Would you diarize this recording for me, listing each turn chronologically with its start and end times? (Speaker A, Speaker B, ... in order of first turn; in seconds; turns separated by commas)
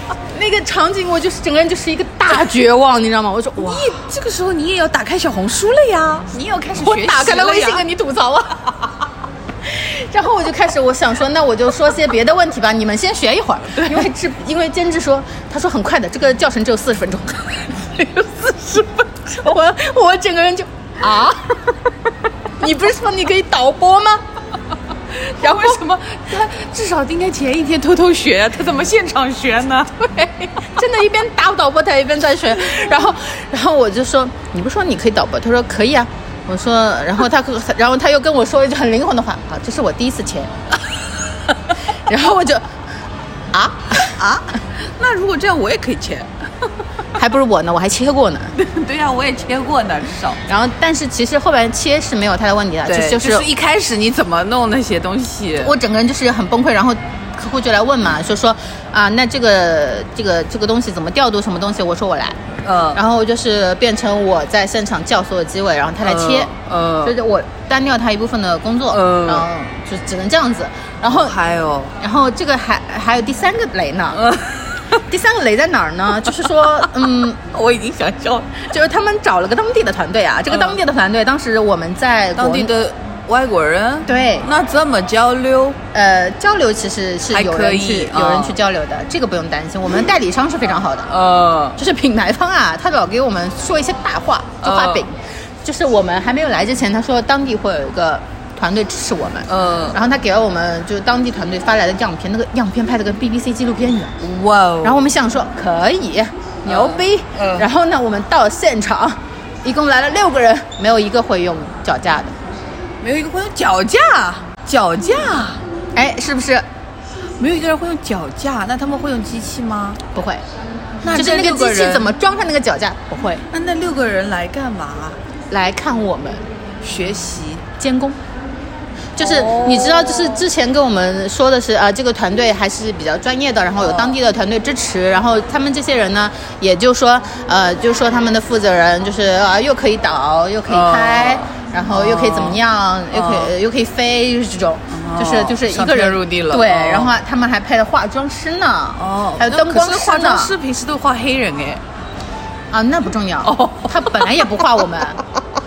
Speaker A: 0.3-4.0, Speaker B: 3.6-7.9, Speaker A: 6.8-8.7, Speaker A: 9.7-21.6, Speaker B: 13.7-14.1, Speaker A: 22.6-24.2, Speaker B: 25.1-30.3, Speaker A: 25.4-25.7, Speaker A: 30.6-40.5, Speaker B: 32.6-32.9, Speaker A: 42.1-42.7, Speaker A: 43.5-44.2, Speaker B: 44.0-46.7, Speaker A: 47.2-48.5, Speaker B: 48.6-50.4, Speaker A: 50.5-53.5, Speaker B: 52.9-55.8, Speaker A: 55.6-62.4, Speaker B: 62.6-63.0, Speaker A: 62.9-66.5, Speaker B: 66.0-67.2, Speaker A: 67.0-71.4, Speaker B: 68.9-69.5, Speaker B: 71.0-72.0, Speaker A: 72.0-74.2, Speaker B: 74.1-75.0, Speaker A: 75.1-77.4, Speaker B: 76.2-78.7, Speaker A: 78.7-82.7, Speaker B: 80.5-80.8, Speaker B: 82.4-85.8, Speaker A: 84.1-84.5, Speaker A: 85.9-91.1, Speaker B: 87.3-88.6, Speaker B: 91.1-91.8, Speaker A: 91.8-104.2, Speaker B: 94.6-95.1, Speaker B: 99.5-100.0, Speaker B: 104.2-105.1, Speaker A: 104.8-112.4, Speaker B: 106.7-107.7, Speaker B: 113.0-115.6, Speaker A: 116.0-116.7, Speaker B: 117.4-120.0, Speaker A: 120.1-120.4, Speaker B: 121.0-122.1, Speaker A: 121.1-123.4, Speaker B: 123.5-125.2, Speaker A: 125.5-126.5, Speaker B: 126.8-127.7, Speaker A: 127.8-128.2, Speaker A: 129.2-150.5, Speaker B: 129.2-130.4, Speaker B: 133.8-134.2, Speaker B: 140.7-142.6, Speaker B: 143.1-143.5, Speaker B: 144.9-147.2, Speaker B: 149.0-151.8, Speaker A: 152.7-155.2, Speaker B: 153.4-154.8